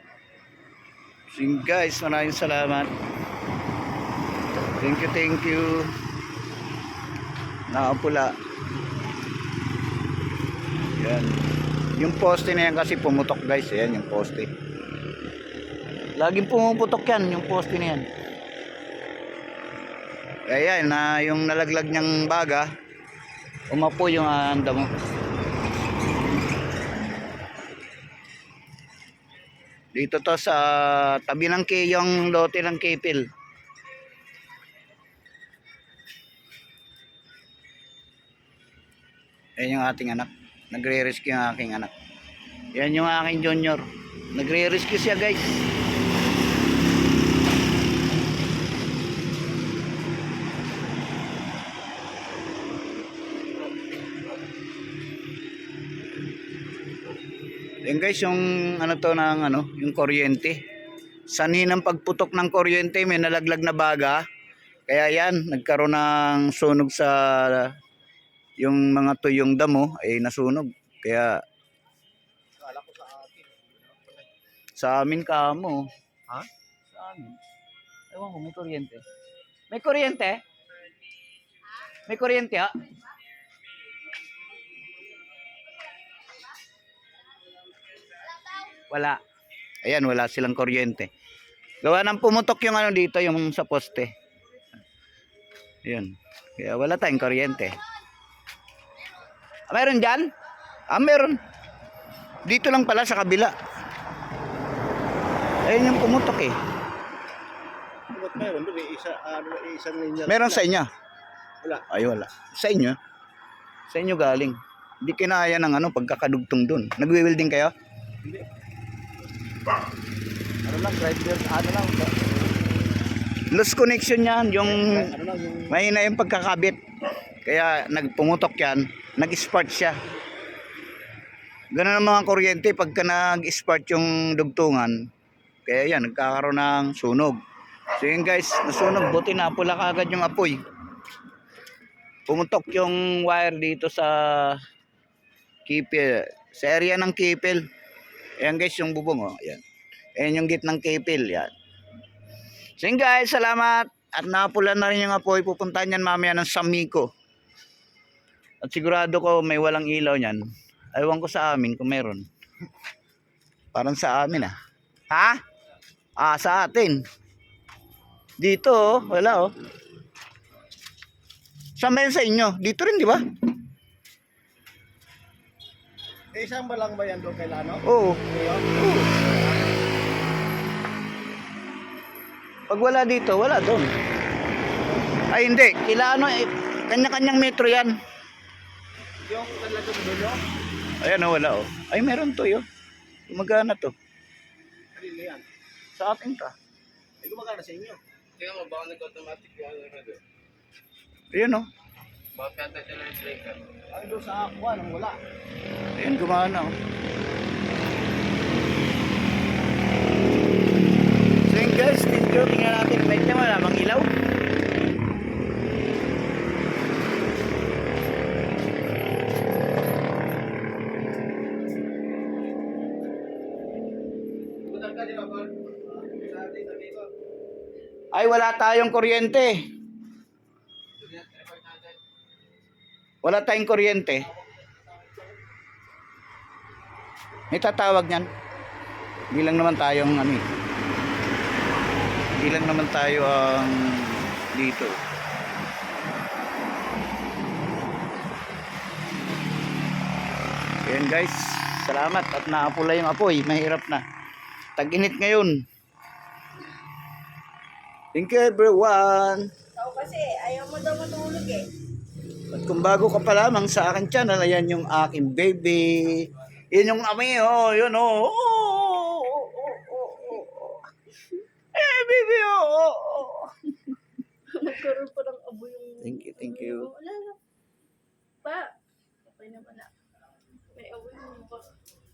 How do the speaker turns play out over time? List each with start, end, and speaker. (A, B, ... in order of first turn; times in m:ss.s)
0:01.3-0:02.9 A
0:04.8-0:05.9 A
0:07.7-0:08.3 A
0:11.0-0:11.4 A
0:11.9-0:14.5 A
0:16.2-0:18.1 A
0:20.5-0:22.7 A
0:23.7-0:24.9 A
0:29.9-0:33.2 A
0:39.6-0:41.9 A
0:42.7-0:45.4 A
0:57.8-1:00.6 A
1:01.3-1:04.2 A
1:04.9-1:07.7 A
1:08.6-1:11.4 A
1:12.6-1:14.2 B
1:14.8-1:17.4 A
1:18.1-1:19.0 A
1:19.7-1:20.4 A
1:22.1-1:22.7 A
1:28.7-1:29.2 A
1:29.8-1:31.1 A
1:31.8-1:34.1 A
1:35.8-1:37.8 A
1:39.7-1:40.3 A
1:40.9-1:41.4 A
1:42.4-1:43.5 A
1:45.6-1:46.5 A
1:48.1-1:50.6 B
1:50.3-1:50.9 A
1:51.9-1:53.0 A
1:53.9-1:57.7 A
2:00.7-2:01.7 A
2:01.3-2:02.3 B
2:03.5-2:05.1 A
2:04.7-2:05.7 B
2:05.7-2:06.8 A
2:07.4-2:10.0 A
2:11.7-2:14.9 A
2:15.6-2:17.4 A
2:18.0-2:20.6 A
2:22.3-2:24.6 A
2:25.6-2:27.6 A
2:28.4-2:29.6 A
2:30.2-2:31.5 A
2:32.8-2:37.1 A
2:38.6-2:40.4 A
2:40.9-2:42.2 A
2:43.7-2:44.6 A
2:45.1-2:45.4 A
2:46.2-2:47.0 A
2:48.4-2:49.5 A
2:51.8-2:53.2 A
2:56.3-2:59.7 B
2:57.8-2:58.2 A
2:58.8-2:59.1 A
3:02.7-3:03.9 A
3:05.3-3:08.0 A
3:09.2-3:10.4 B
3:11.0-3:12.6 A
3:13.3-3:13.9 A
3:14.9-3:15.4 B
3:16.0-3:16.5 A
3:17.2-3:18.0 B
3:18.4-3:20.2 C
3:21.3-3:21.6 A
3:22.3-3:23.6 C
3:23.9-3:25.2 B
3:26.0-3:26.8 A
3:31.4-3:34.1 A
3:44.7-3:45.5 C
3:46.1-3:47.1 B
3:48.1-3:49.6 A
3:51.0-3:52.0 C
3:53.2-3:54.2 A
3:57.5-3:58.3 A
3:59.3-4:00.4 A
4:02.4-4:05.0 A
4:10.8-4:14.0 A
4:14.8-4:15.6 A
4:18.1-4:19.5 A
4:19.8-4:21.7 D
4:22.5-4:30.8 A
4:31.7-4:33.5 A
4:34.5-4:37.4 D
4:36.0-4:36.9 A
4:38.4-4:39.9 D
4:40.7-4:41.7 D